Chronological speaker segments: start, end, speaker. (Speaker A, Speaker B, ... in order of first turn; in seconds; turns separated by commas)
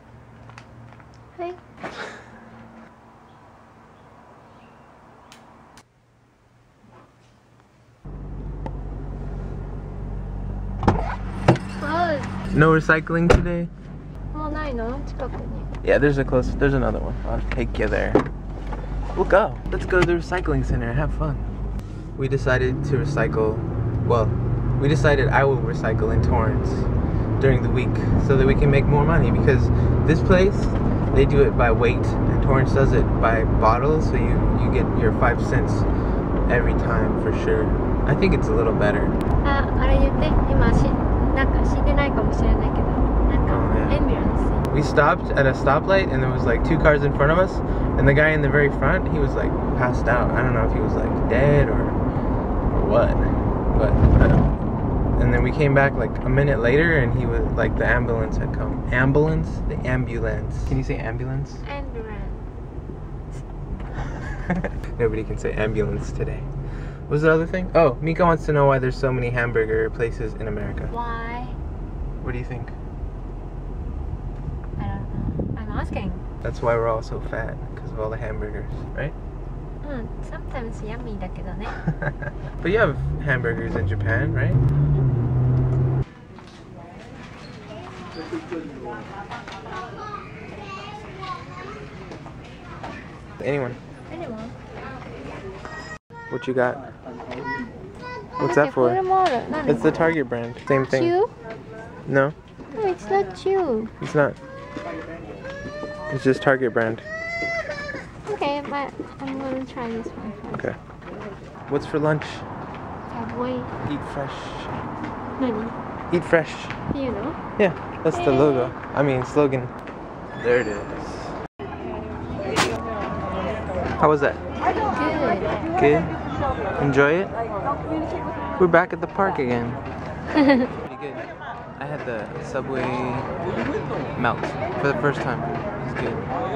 Speaker A: 11.8-12.4, Speaker B: 12.5-13.7, Speaker A: 14.3-15.7, Speaker B: 15.8-18.2, Speaker B: 19.1-21.5, Speaker B: 22.2-35.9, Speaker B: 36.5-39.1, Speaker A: 39.4-44.6, Speaker B: 43.5-44.0, Speaker B: 44.7-52.0, Speaker B: 52.7-54.5, Speaker B: 55.2-61.6, Speaker A: 61.6-62.5, Speaker B: 64.9-66.5, Speaker B: 67.1-70.9, Speaker A: 70.9-71.6, Speaker B: 72.2-72.8, Speaker A: 74.8-76.2, Speaker B: 76.4-79.1, Speaker A: 79.8-81.8, Speaker B: 82.6-84.6, Speaker B: 93.4-93.8, Speaker A: 94.1-94.6, Speaker B: 96.3-96.8, Speaker B: 98.4-99.0, Speaker A: 98.4-100.0, Speaker B: 99.6-101.1, Speaker A: 100.7-101.3, Speaker B: 102.1-102.4, Speaker A: 102.7-103.9, Speaker B: 104.0-104.4, Speaker B: 106.1-107.1, Speaker A: 108.2-110.6, Speaker B: 110.5-110.8, Speaker B: 111.7-112.5, Speaker A: 113.1-113.7, Speaker B: 113.8-114.7, Speaker A: 115.4-115.8, Speaker B: 116.1-116.8, Speaker A: 116.9-117.4, Speaker B: 117.6-119.7, Speaker A: 118.1-118.7, Speaker B: 120.4-121.3, Speaker B: 124.0-124.4, Speaker A: 124.9-125.6, Speaker B: 125.8-126.1, Speaker B: 126.8-127.3, Speaker B: 128.6-129.8, Speaker A: 130.4-130.7, Speaker B: 130.8-133.3, Speaker B: 134.2-136.2